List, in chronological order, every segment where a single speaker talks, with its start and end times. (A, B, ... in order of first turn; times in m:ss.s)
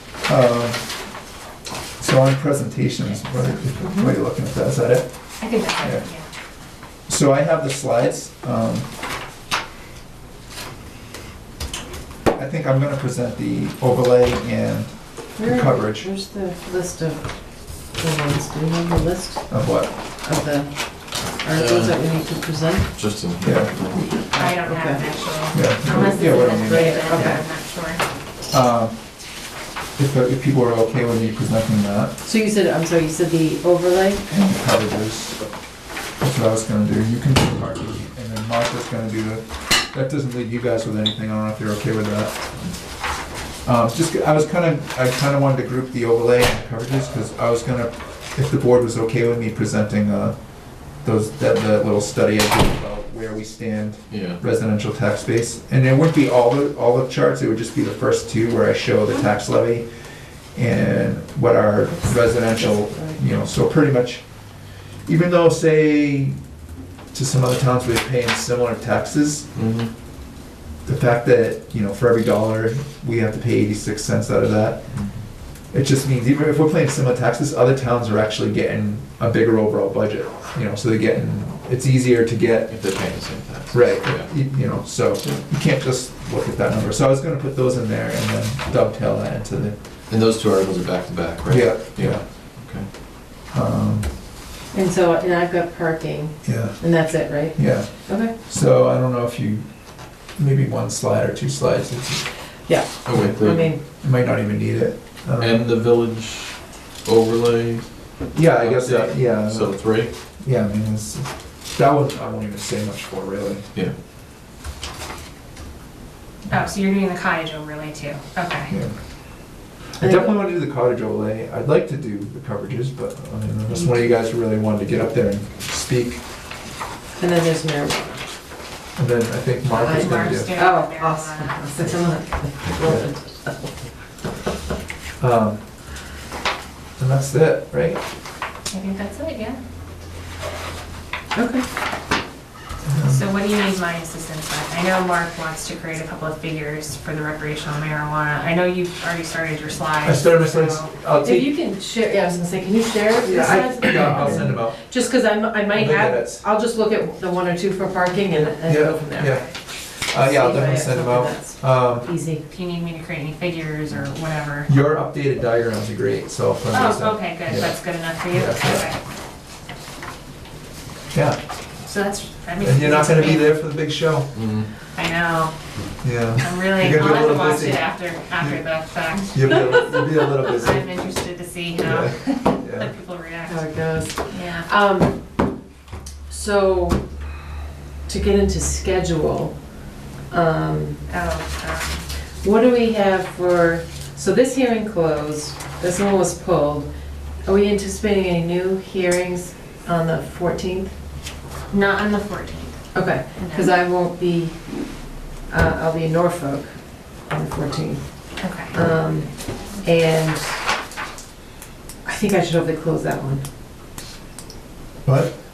0:00.2-0:00.9 A
0:02.0-0:05.1 A
0:03.0-0:03.6 B
0:03.8-0:04.1 C
0:05.4-0:06.3 B
0:05.8-0:06.1 A
0:07.1-0:08.9 A
0:12.3-0:16.1 A
0:15.4-0:19.5 C
0:19.5-0:19.9 A
0:20.2-0:22.9 C
0:21.6-0:24.1 D
0:23.4-0:23.8 A
0:24.0-0:25.1 C
0:24.3-0:28.0 B
0:25.5-0:27.4 A
0:26.0-0:27.4 C
0:28.5-0:29.0 A
0:30.0-0:32.1 A
0:32.2-0:34.2 C
0:34.3-0:35.4 A
0:36.2-0:42.4 A
0:43.6-0:59.9 A
0:54.1-0:54.4 D
1:00.5-1:06.4 A
1:01.9-1:03.2 C
1:07.1-1:09.5 A
1:09.6-1:09.9 D
1:10.8-1:14.9 A
1:14.9-1:15.2 D
1:15.7-1:22.8 A
1:22.7-1:24.3 D
1:23.7-1:29.8 A
1:30.1-1:32.9 D
1:31.5-1:32.2 A
1:33.5-1:34.2 A
1:34.7-1:38.3 C
1:36.4-1:42.3 A
1:42.7-1:43.8 C
1:43.0-1:43.7 D
1:44.0-1:45.7 A
1:45.4-1:50.1 D
1:48.3-1:53.7 A
1:56.5-1:58.8 B
1:58.7-1:59.0 A
1:59.9-2:06.2 A
2:00.0-2:00.4 C
2:03.7-2:04.0 C
2:07.2-2:08.3 C
2:09.0-2:10.5 A
2:09.8-2:13.7 C
2:09.8-2:12.1 B
2:12.8-2:13.1 A
2:15.2-2:15.6 A
2:17.0-2:18.0 A
2:18.7-2:19.6 B
2:21.3-2:21.7 C
2:22.8-2:23.2 A
2:23.1-2:30.9 B
2:30.0-2:31.5 A
2:31.2-2:39.3 C
2:33.2-2:35.0 A
2:35.7-2:36.4 A
2:38.7-2:39.5 A
2:39.1-2:39.5 B
2:40.0-2:42.1 A
2:40.2-2:42.4 C
2:42.5-2:44.7 B
2:44.6-2:48.9 A
2:46.7-2:49.0 B
2:51.1-2:51.4 A
2:51.8-2:53.6 B
2:52.6-2:54.3 A
2:54.3-2:54.7 D
2:54.9-2:55.6 B
2:56.0-3:00.9 A
2:56.4-3:04.7 B
3:01.8-3:02.9 A
3:03.5-3:05.4 C
3:06.3-3:07.0 C
3:08.1-3:09.8 C
3:10.3-3:11.0 C
3:11.1-3:12.0 B
3:12.4-3:16.9 C
3:17.4-3:20.9 C
3:21.7-3:22.8 B
3:22.9-3:30.6 C
3:23.4-3:23.7 B
3:28.4-3:28.8 B
3:32.0-3:33.4 C
3:35.0-3:35.4 A